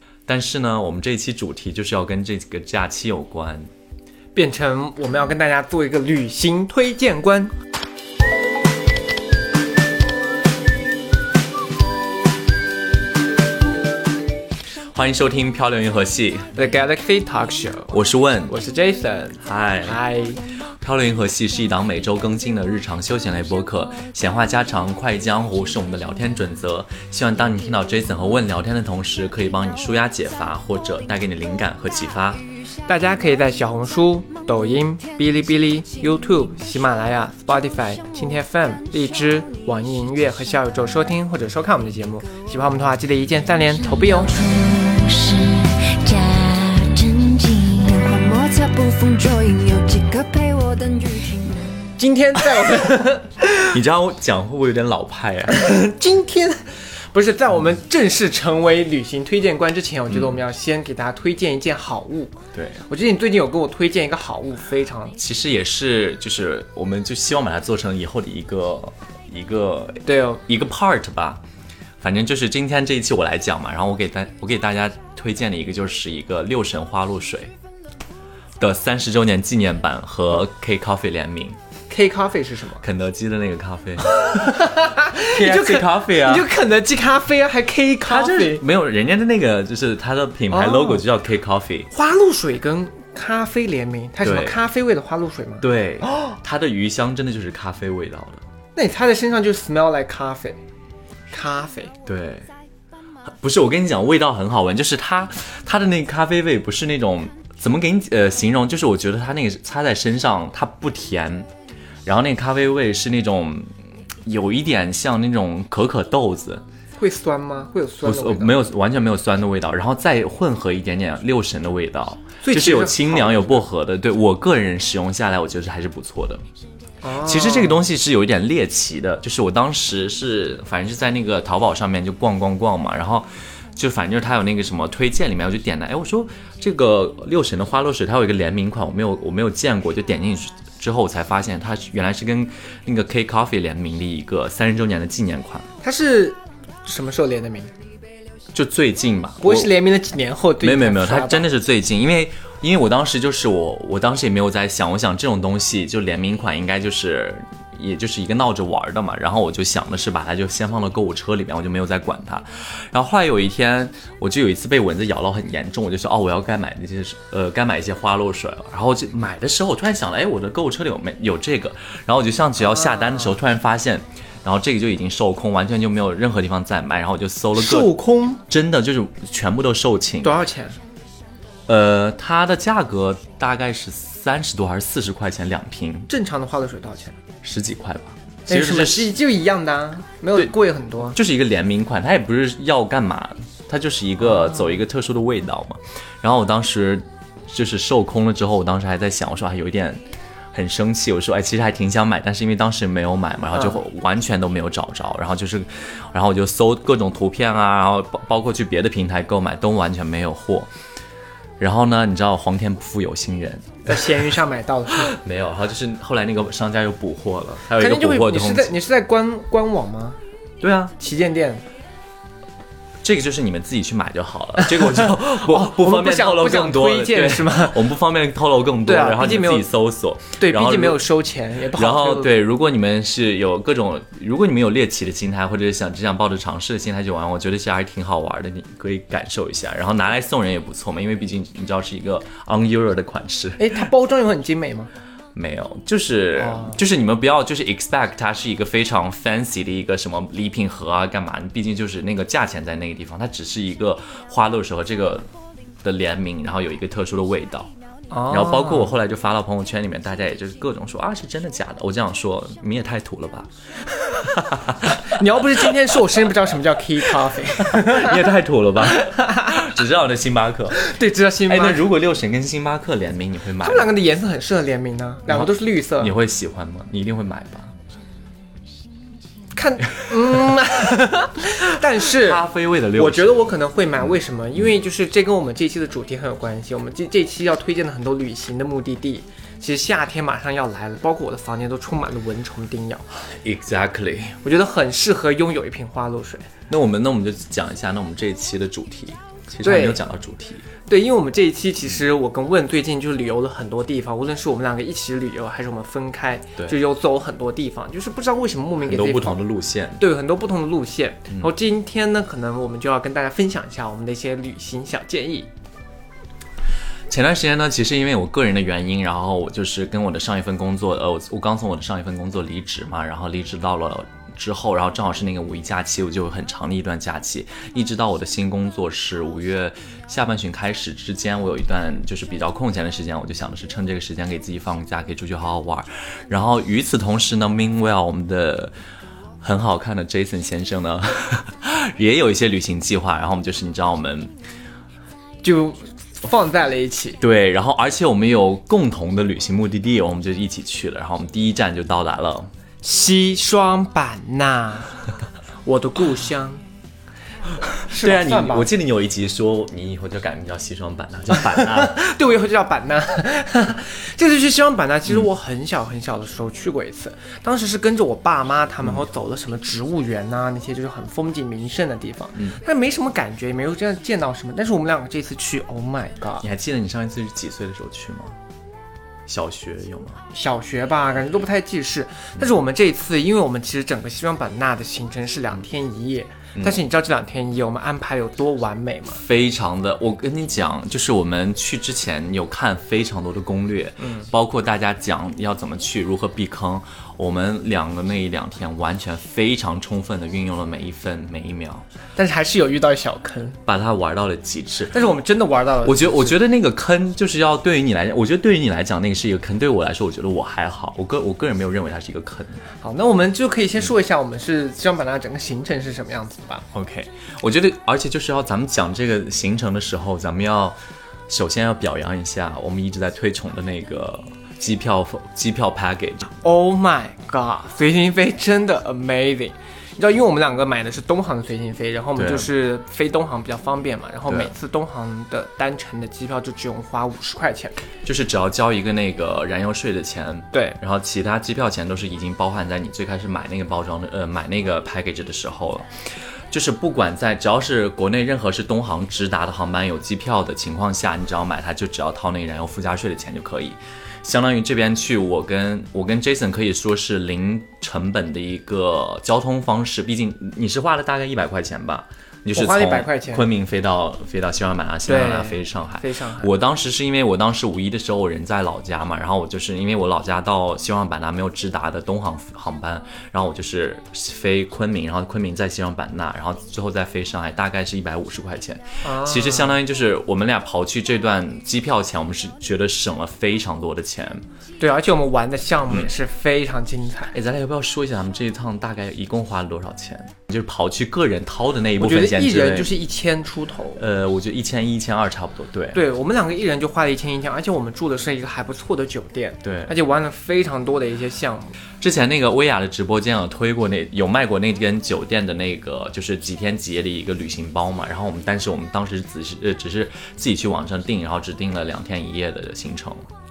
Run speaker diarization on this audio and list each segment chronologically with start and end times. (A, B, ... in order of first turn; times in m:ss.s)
0:00.3-0:03.7 A
0:04.3-0:07.5 B
0:14.9-0:16.5 A
0:16.6-0:20.4 B
0:17.9-0:18.6 A
0:19.4-0:20.0 A
0:20.8-0:32.4 A
0:32.9-0:44.4 B
0:43.9-0:51.9 C
0:52.0-0:53.7 B
0:53.7-0:55.6 A
0:55.5-1:05.2 B
1:00.1-1:00.4 A
1:02.5-1:02.8 A
1:05.2-1:11.4 A
1:10.1-1:10.4 B
1:12.0-1:17.5 A
1:18.6-1:21.6 A
1:21.9-1:22.8 B
1:22.8-1:26.5 A
1:24.1-1:28.6 B
1:28.1-1:31.9 A
1:30.5-1:31.0 B
1:31.9-1:36.3 B
1:34.2-1:34.6 A
1:35.6-1:38.4 A
1:38.8-1:40.6 B
1:41.3-1:41.9 B
1:42.1-1:42.5 A
1:43.3-1:51.5 A
1:52.0-1:53.7 A
1:54.3-1:56.6 A
1:57.0-1:58.6 B
1:58.0-2:06.4 A
2:02.4-2:03.6 B
2:07.0-2:07.8 B
2:07.2-2:25.7 A
2:25.8-2:27.7 B
2:28.5-2:29.7 A
2:29.4-2:31.5 B
2:30.6-2:58.0 A
2:52.6-2:53.4 B
2:57.6-2:58.4 B
2:58.5-3:00.4 A
3:00.2-3:00.8 B
3:01.7-3:06.1 A
3:06.1-3:07.2 B
3:07.4-3:09.1 A
3:08.5-3:11.2 B
3:11.2-3:20.0 A
3:14.4-3:14.8 B
3:20.5-3:30.7 A
3:31.6-3:34.3 A
3:33.9-3:35.1 B
3:34.9-3:38.7 A
3:37.8-3:40.2 B
3:40.6-3:40.9 A
3:41.0-3:41.6 B
3:43.0-3:51.0 A
3:44.7-3:47.8 B
3:48.8-3:49.7 B
3:50.4-3:52.3 B
3:51.7-4:03.9 A
4:03.6-4:04.9 B
4:05.4-4:15.3 A
4:06.4-4:06.8 B
4:15.8-4:17.7 A
4:18.1-4:18.9 B
4:18.3-4:25.2 A
4:24.8-4:28.3 B
4:27.6-4:30.9 A
4:28.9-4:29.6 B
4:30.8-4:31.9 B
4:31.5-4:33.9 A
4:33.6-4:36.1 B
4:35.3-4:37.7 A
4:39.6-4:53.0 B
4:42.0-4:44.0 A
4:53.2-4:54.4 A
4:54.4-4:56.5 B
4:56.7-5:00.7 A
4:59.6-5:00.0 B
5:00.9-5:09.4 B
5:08.8-5:10.0 A
5:10.0-5:15.5 B
5:17.1-5:38.7 A
5:39.4-5:44.3 A
5:45.4-5:47.2 B
5:47.2-5:52.5 A
5:52.8-5:55.0 B
5:55.6-5:56.6 B
5:57.8-6:02.1 A
5:57.9-5:58.7 B
6:01.5-6:16.5 B
6:16.4-6:18.4 A
6:19.3-6:20.2 A
6:20.3-6:29.2 B
6:29.2-6:41.8 A
6:34.0-6:34.3 B
6:42.2-6:43.6 B
6:43.7-6:45.1 A
6:44.9-6:46.4 B
6:45.8-6:52.6 A
6:52.8-6:56.7 B
6:56.7-7:00.8 A
7:01.3-7:06.3 A
7:06.4-7:17.8 B
7:12.2-7:12.5 A
7:18.0-7:25.9 A
7:20.5-7:20.8 B
7:26.5-8:04.4 A
7:42.5-7:43.5 B
7:45.1-7:46.5 B
7:59.0-7:59.8 B
8:04.8-8:07.3 B
8:07.3-8:13.0 A
8:12.0-8:14.0 B
8:14.0-8:16.0 A
8:15.9-8:21.8 B
8:19.6-8:19.9 A
8:22.0-8:33.3 A